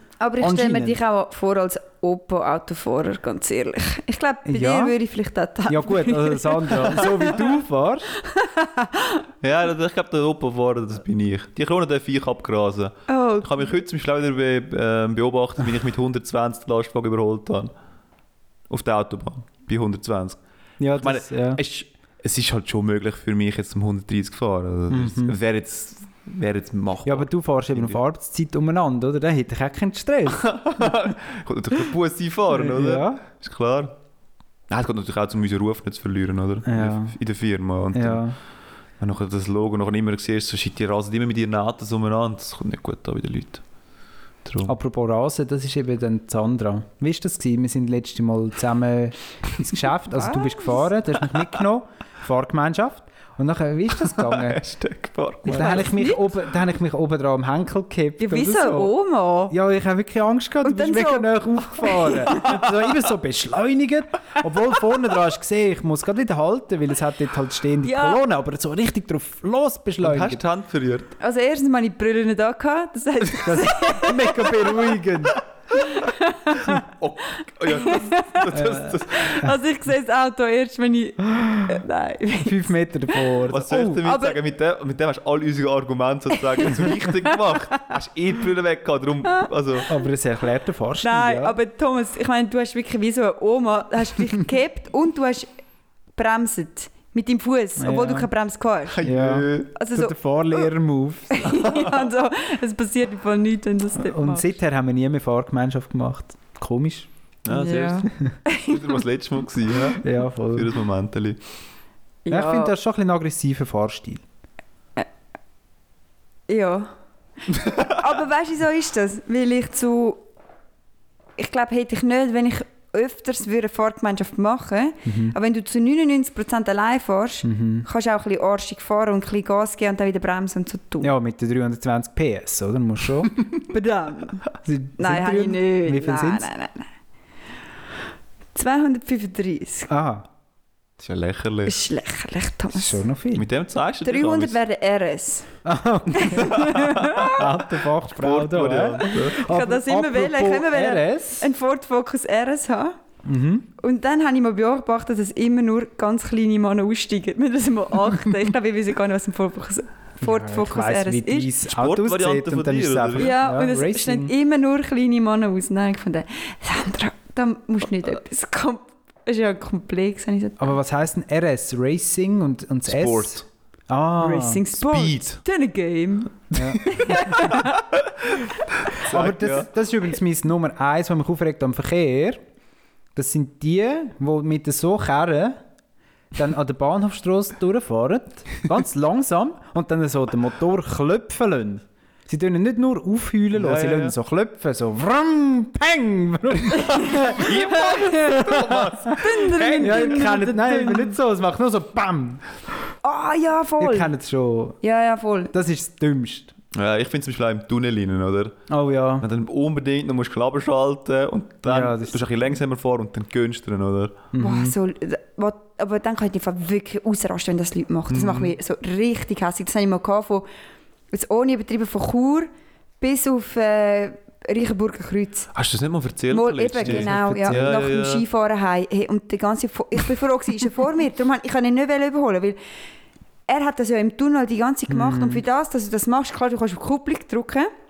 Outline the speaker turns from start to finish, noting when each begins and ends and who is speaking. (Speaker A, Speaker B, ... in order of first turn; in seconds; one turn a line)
Speaker A: 0.2-7.3
Speaker B: 0.4-1.0
Speaker B: 4.5-5.0
Speaker B: 5.7-8.1
Speaker A: 8.2-9.2
Speaker C: 9.4-17.7
Speaker A: 13.1-13.7
Speaker C: 18.7-20.4
Speaker B: 20.8-21.6
Speaker C: 21.0-28.0
Speaker B: 24.9-25.4
Speaker B: 27.1-30.9
Speaker C: 30.3-34.0
Speaker B: 32.5-33.2
Speaker C: 34.7-38.3
Speaker B: 36.6-37.1
Speaker B: 37.9-38.4
Speaker C: 39.0-43.6
Speaker C: 44.5-44.7
Speaker B: 44.6-54.6
Speaker A: 50.1-50.9
Speaker C: 54.0-55.9
Speaker A: 55.5-56.2
Speaker B: 55.5-58.9
Speaker A: 58.2-59.5
Speaker B: 59.5-70.4
Speaker A: 60.6-62.5
Speaker A: 67.8-68.2
Speaker C: 70.0-71.1
Speaker A: 71.2-74.7
Speaker B: 73.4-75.4
Speaker A: 75.8-76.8
Speaker C: 76.6-79.5
Speaker A: 77.7-82.7
Speaker B: 78.5-79.0
Speaker B: 82.4-84.0
Speaker C: 83.5-89.9
Speaker A: 84.0-84.4
Speaker A: 86.5-87.5
Speaker B: 89.9-91.6
Speaker A: 91.0-95.5
Speaker A: 96.2-99.0
Speaker B: 97.8-98.3
Speaker C: 98.9-99.7
Speaker B: 99.0-101.7
Speaker A: 99.8-100.2
Speaker A: 101.3-104.5
Speaker B: 104.0-107.1
Speaker C: 107.5-108.1
Speaker A: 107.5-109.0
Speaker C: 108.7-111.4
Speaker B: 110.0-110.8
Speaker A: 112.2-112.7
Speaker B: 112.3-114.2
Speaker A: 116.5-116.9
Speaker A: 117.6-120.2
Speaker A: 121.4-131.1
Speaker B: 125.0-125.4
Speaker B: 127.4-127.9
Speaker B: 131.0-133.3
Speaker A: 133.7-134.4
Speaker B: 134.6-136.5
Speaker A: 135.0-136.9
Speaker A: 138.5-139.9
Speaker B: 139.9-140.3
Speaker C: 141.0-141.8
Speaker A: 141.7-143.0
Speaker B: 142.7-143.5
Speaker C: 143.3-144.6
Speaker A: 144.1-145.5
Speaker B: 145.7-151.5
Speaker A: 146.1-147.4
Speaker C: 146.4-147.4
Speaker C: 148.1-149.4
Speaker A: 149.4-153.0
Speaker B: 153.2-153.7
Speaker A: 153.8-161.5
Speaker B: 160.2-164.3
Speaker C: 161.7-163.3
Speaker A: 163.2-170.7
Speaker B: 170.6-174.6
Speaker C: 172.9-173.4
Speaker A: 174.2-177.8
Speaker C: 174.7-175.4
Speaker B: 176.5-176.8
Speaker C: 176.6-177.0
Speaker C: 178.2-179.7
Speaker B: 179.1-182.4
Speaker B: 183.2-185.6
Speaker B: 186.3-199.2
Speaker C: 193.5-194.2
Speaker C: 196.9-200.2
Speaker A: 196.9-198.5
Speaker A: 199.2-201.2
Speaker B: 199.8-202.4
Speaker A: 203.0-204.1
Speaker B: 203.8-204.8
Speaker A: 204.8-205.5
Speaker B: 205.5-206.5
Speaker C: 206.7-208.6
Speaker B: 208.7-209.3
Speaker C: 209.2-214.2
Speaker B: 211.7-212.2
Speaker B: 214.3-214.8
Speaker A: 214.4-220.5
Speaker C: 218.1-218.5
Speaker A: 221.1-222.5
Speaker A: 223.0-225.5
Speaker C: 225.5-228.2
Speaker A: 226.3-232.6
Speaker B: 226.8-227.7
Speaker A: 233.5-237.7
Speaker B: 234.9-235.4